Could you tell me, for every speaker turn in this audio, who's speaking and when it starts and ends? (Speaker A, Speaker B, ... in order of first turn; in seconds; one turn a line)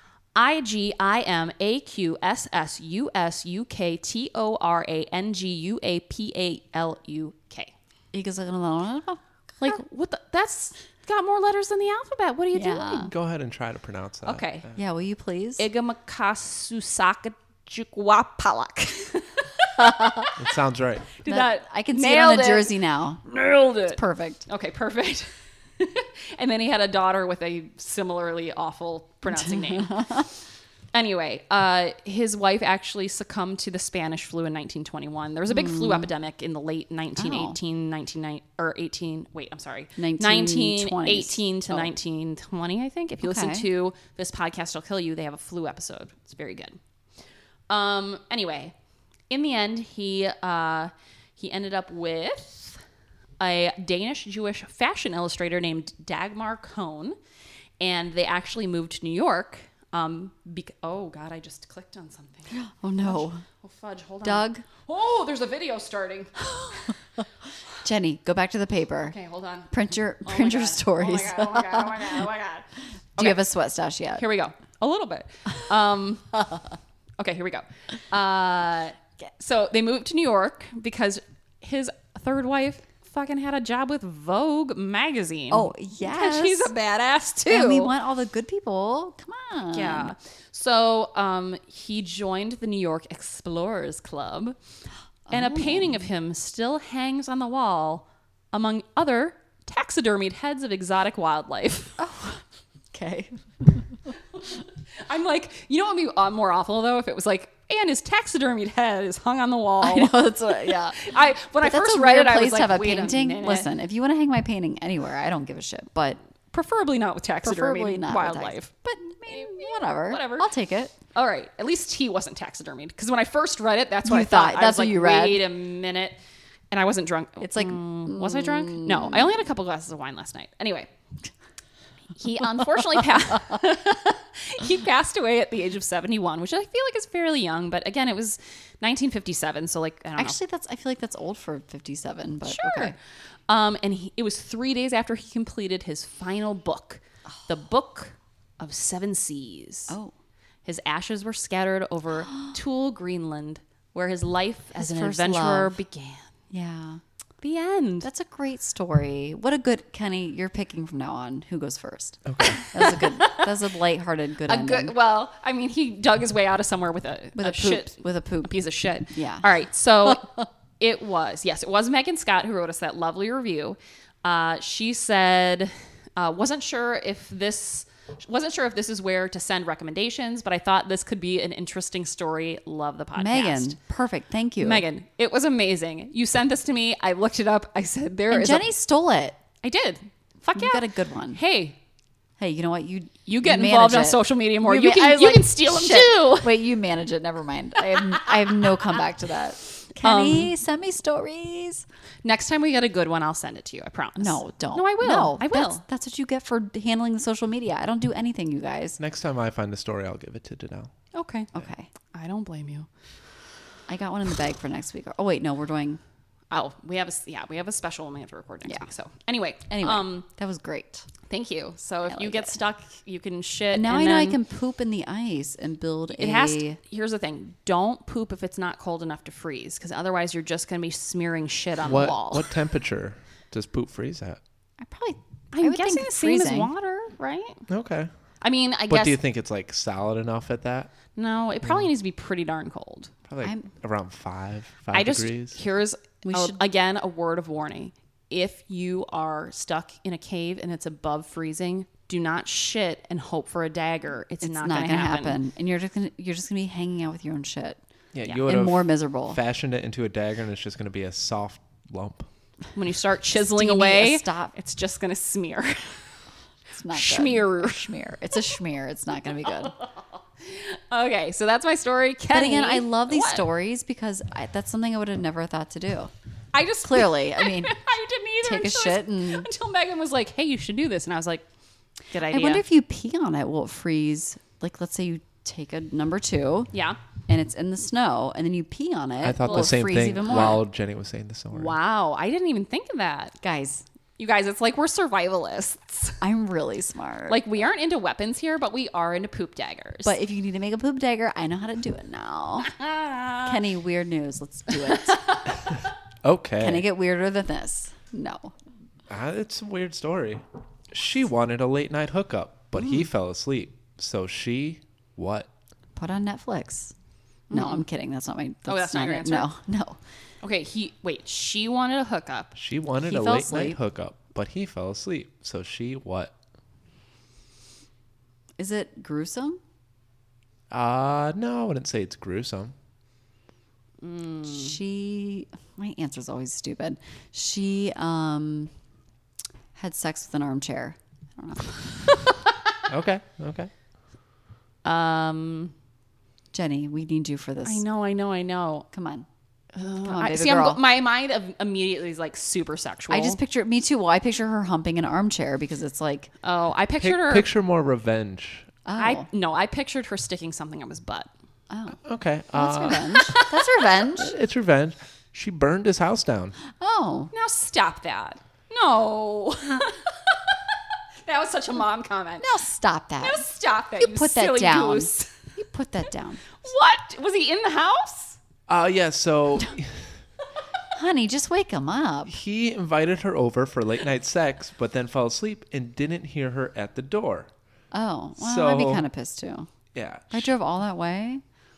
Speaker A: 0.3-7.7
Speaker B: 8.1-9.8
Speaker A: 9.6-13.1
Speaker B: 12.5-13.1
Speaker C: 13.1-14.7
Speaker A: 14.2-14.7
Speaker B: 14.7-15.6
Speaker A: 15.6-20.4
Speaker B: 19.8-20.3
Speaker C: 20.4-21.1
Speaker A: 21.1-30.2
Speaker B: 21.3-23.2
Speaker B: 23.9-24.4
Speaker B: 29.3-30.3
Speaker A: 30.9-46.8
Speaker B: 35.5-36.1
Speaker B: 37.2-37.6
Speaker B: 40.0-41.9
Speaker B: 43.2-43.7
Speaker A: 47.7-48.7
Speaker A: 49.3-52.8
Speaker A: 53.4-57.2
Speaker A: 57.8-66.9
Speaker B: 62.5-63.4
Speaker B: 64.2-64.6
Speaker B: 67.8-69.2
Speaker A: 69.1-73.4
Speaker B: 69.7-72.2
Speaker B: 73.2-74.2
Speaker A: 74.2-76.5
Speaker A: 77.2-87.9
Speaker B: 85.5-86.7
Speaker B: 87.5-90.1
Speaker A: 89.7-94.5
Speaker B: 95.3-96.0
Speaker A: 95.3-102.0
Speaker B: 102.0-104.0
Speaker A: 105.0-113.7
Speaker B: 109.8-111.0
Speaker B: 111.6-116.2
Speaker A: 116.5-118.7
Speaker B: 117.4-120.9
Speaker A: 119.2-120.5
Speaker A: 121.1-126.2
Speaker B: 124.0-125.4
Speaker A: 126.7-130.9
Speaker B: 127.4-129.3
Speaker A: 132.2-140.4
Speaker B: 140.2-142.9
Speaker A: 142.4-142.9
Speaker A: 143.5-149.9
Speaker A: 150.6-156.3
Speaker B: 154.8-155.7
Speaker B: 156.5-157.0
Speaker A: 157.4-158.1
Speaker B: 158.0-164.9
Speaker C: 162.3-162.6
Speaker A: 162.7-163.5
Speaker A: 164.5-183.8
Speaker B: 167.3-169.5
Speaker B: 170.0-170.4
Speaker B: 183.2-184.8
Speaker A: 184.6-188.7
Speaker B: 188.3-189.4
Speaker A: 189.6-191.8
Speaker B: 190.6-191.4
Speaker B: 192.4-201.8
Speaker A: 193.2-196.6
Speaker A: 200.0-200.5
Speaker A: 202.2-205.8
Speaker B: 204.2-209.0
Speaker C: 209.0-210.9
Speaker A: 211.1-211.5
Speaker B: 211.5-211.9
Speaker A: 212.1-212.9
Speaker B: 213.9-216.0
Speaker A: 216.5-220.2
Speaker B: 219.8-221.1
Speaker A: 221.3-224.4
Speaker B: 222.1-222.5
Speaker B: 223.7-226.8
Speaker A: 226.1-232.5
Speaker C: 231.8-234.4
Speaker B: 234.8-236.7
Speaker A: 235.5-237.6
Speaker C: 237.7-238.1
Speaker A: 238.4-239.2
Speaker C: 238.9-240.9
Speaker A: 241.2-243.1
Speaker C: 241.6-241.9
Speaker C: 243.3-245.6
Speaker A: 244.9-255.4
Speaker B: 246.2-246.6
Speaker B: 254.4-257.8
Speaker C: 258.1-262.3
Speaker B: 258.4-259.4
Speaker A: 262.7-266.1
Speaker B: 263.3-264.5
Speaker B: 266.7-269.7
Speaker A: 266.9-267.9
Speaker A: 270.4-273.4
Speaker B: 272.3-276.1
Speaker A: 276.5-281.4
Speaker B: 276.8-277.8
Speaker B: 278.4-279.5
Speaker A: 282.1-282.6
Speaker B: 282.3-286.7
Speaker A: 286.7-287.0
Speaker B: 287.3-290.6
Speaker C: 289.2-291.7
Speaker A: 289.4-290.6
Speaker A: 291.5-293.4
Speaker B: 293.4-293.8
Speaker A: 294.2-296.2
Speaker B: 296.2-297.4
Speaker A: 297.3-300.2
Speaker B: 300.0-302.7
Speaker A: 302.6-303.6
Speaker B: 303.4-305.4
Speaker A: 304.9-305.4
Speaker C: 306.2-306.8
Speaker B: 306.6-308.5
Speaker C: 309.1-315.5
Speaker B: 315.9-316.9
Speaker A: 317.5-317.8
Speaker B: 317.5-320.0
Speaker A: 318.7-319.5
Speaker A: 320.4-322.5
Speaker C: 322.5-326.3
Speaker B: 323.1-323.8
Speaker B: 328.6-329.6
Speaker C: 330.7-332.7
Speaker A: 334.0-334.8
Speaker B: 334.4-338.7
Speaker B: 339.7-341.8
Speaker C: 342.9-343.7
Speaker A: 344.8-345.7
Speaker B: 346.5-347.8
Speaker A: 347.6-348.9
Speaker B: 348.9-349.3
Speaker A: 349.7-353.4
Speaker B: 350.0-350.8
Speaker B: 353.1-356.3
Speaker A: 356.4-357.5
Speaker C: 357.0-358.7
Speaker B: 358.8-359.3
Speaker A: 359.0-361.3
Speaker B: 361.7-362.0
Speaker C: 362.0-363.4
Speaker B: 362.5-364.4
Speaker A: 363.1-363.9
Speaker C: 364.1-366.6
Speaker B: 366.7-367.3
Speaker A: 367.3-370.6
Speaker A: 371.2-372.5
Speaker B: 372.4-376.5
Speaker A: 373.2-375.3
Speaker A: 376.6-378.4
Speaker C: 378.7-380.1
Speaker B: 380.9-382.4
Speaker C: 382.3-387.5
Speaker B: 387.9-389.7
Speaker C: 388.4-389.1
Speaker C: 389.9-390.5
Speaker B: 390.3-391.4